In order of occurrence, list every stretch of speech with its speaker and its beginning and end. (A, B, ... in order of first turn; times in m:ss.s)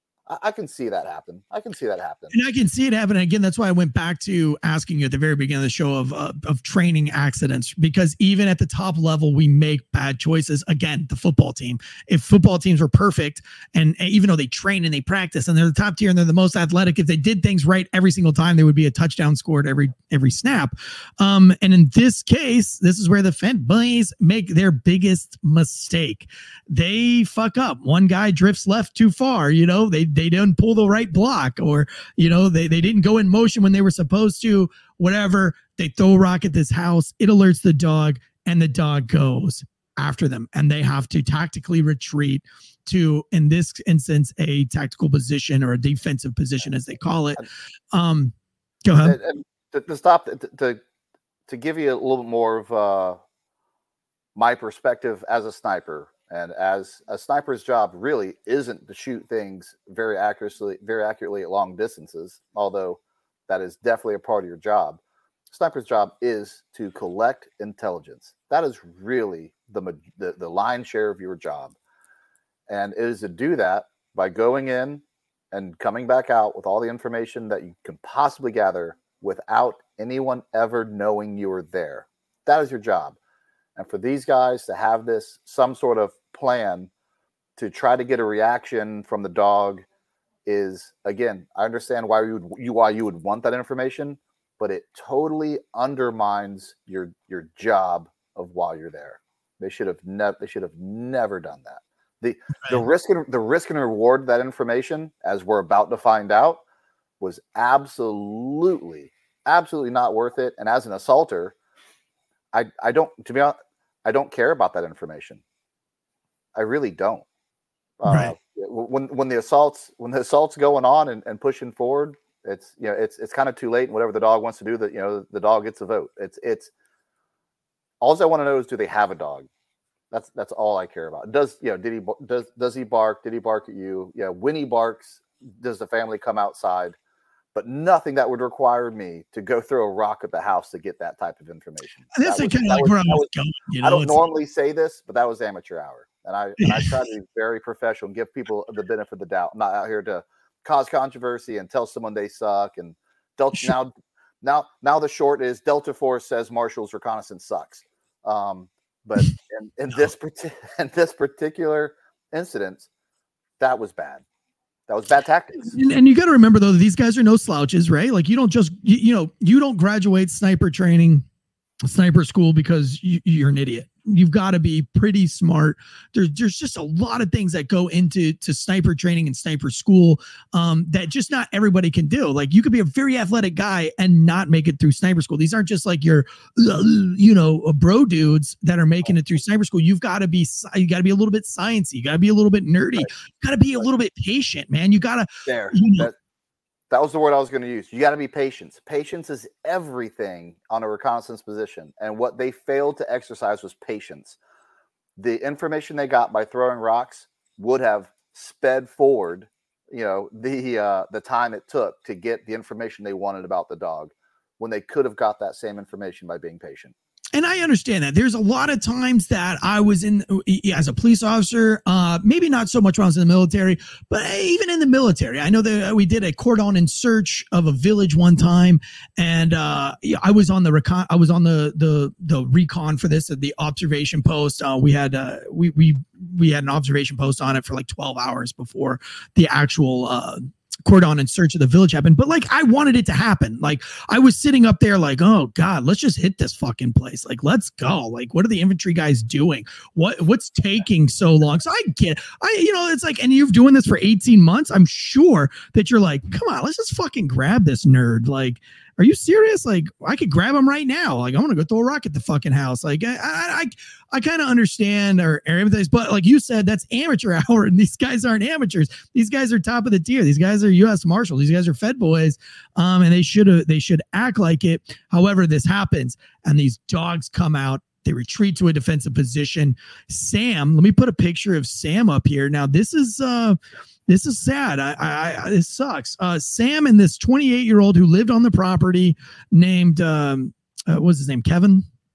0:00.3-0:02.3 A
0:02.3-0:48.3 B
0:48.8-0:49.2 B
0:49.0-0:50.8 A
0:51.5-0:53.2 A
0:54.3-1:11.8 A
1:12.7-1:23.2 A
1:23.8-1:26.9 A
1:27.6-1:29.8 A
1:30.4-1:46.6 A
1:47.2-1:51.5 A
1:52.5-1:55.4 A
1:56.5-1:57.2 A
1:58.0-2:06.7 A
1:58.1-1:58.3 B
2:08.0-2:09.5 A
2:10.1-2:17.0 A
2:17.5-2:23.3 A
2:22.1-2:24.2 B
2:23.8-2:42.9 A
2:26.6-2:26.9 B
2:43.6-2:44.2 A
2:44.9-2:45.7 A
2:45.6-2:51.2 B
2:51.8-3:16.1 B
3:15.4-3:16.1 A
3:16.9-3:24.4 A
3:25.2-3:36.9 A
3:37.3-4:43.6 B
4:44.1-4:51.8 B